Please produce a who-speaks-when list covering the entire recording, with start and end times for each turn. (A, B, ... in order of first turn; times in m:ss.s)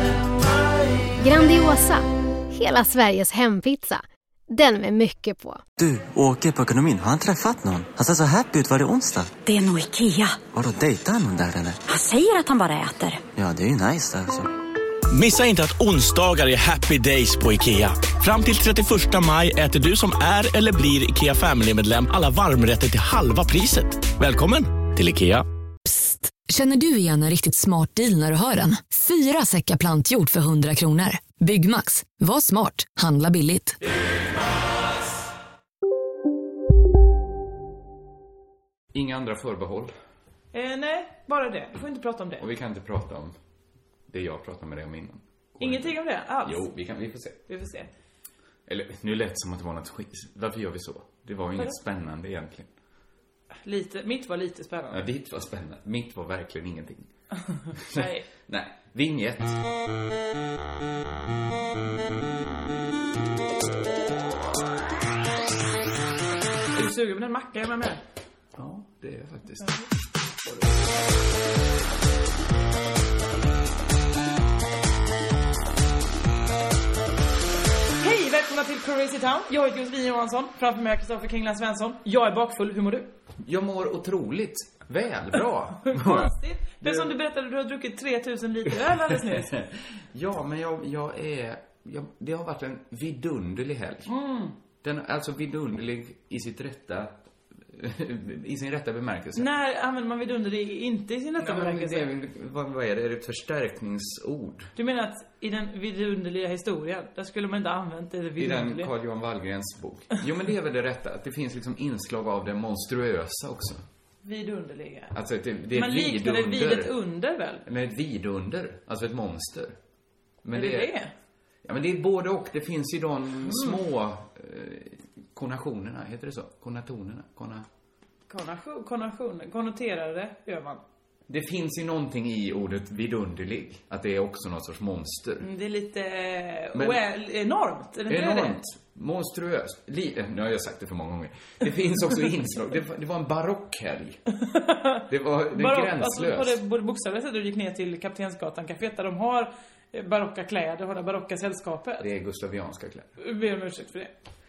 0:01.2-0:05.6 A
0:05.8-0:09.3 B
0:09.4-0:10.4 C
0:10.5-0:11.8 B
0:11.9-0:13.2 C
0:13.4-0:14.5 B
0:15.1-0:25.4 D
0:25.8-0:33.8 E
0:38.9-0:39.9 F
0:40.5-0:42.4 G
0:42.4-0:43.3 F
0:44.1-0:47.4 F
0:45.6-0:46.6 G
0:47.5-0:47.9 G
0:48.6-0:52.7 F
0:53.6-0:55.0 G
0:54.9-0:57.1 F
0:57.7-0:59.6 F
0:57.9-0:58.2 G
1:06.7-1:08.0 G
1:08.6-1:09.8 F
1:18.0-1:23.1 G
1:23.4-1:27.1 F
1:25.8-1:29.5 G
1:28.8-1:34.1 F
1:34.1-1:34.5 G
1:34.8-1:37.1 F
1:37.7-1:39.5 F
1:39.3-1:42.1 G
1:41.4-1:44.7 F
1:44.8-1:48.9 G
1:48.4-1:53.8 F
1:54.2-1:55.1 G
1:55.1-1:56.9 F
1:55.7-1:57.6 G
1:57.6-1:59.7 F
2:00.4-2:00.9 F
2:00.5-2:01.1 G
2:01.6-2:07.6 F
2:03.4-2:03.8 G
2:08.3-2:10.8 G
2:11.3-2:15.5 F
2:15.4-2:18.6 G
2:16.7-2:17.0 F
2:18.1-2:24.2 F
2:24.4-2:32.0 G
2:25.1-2:26.6 F
2:32.0-2:33.1 F
2:33.2-2:34.1 G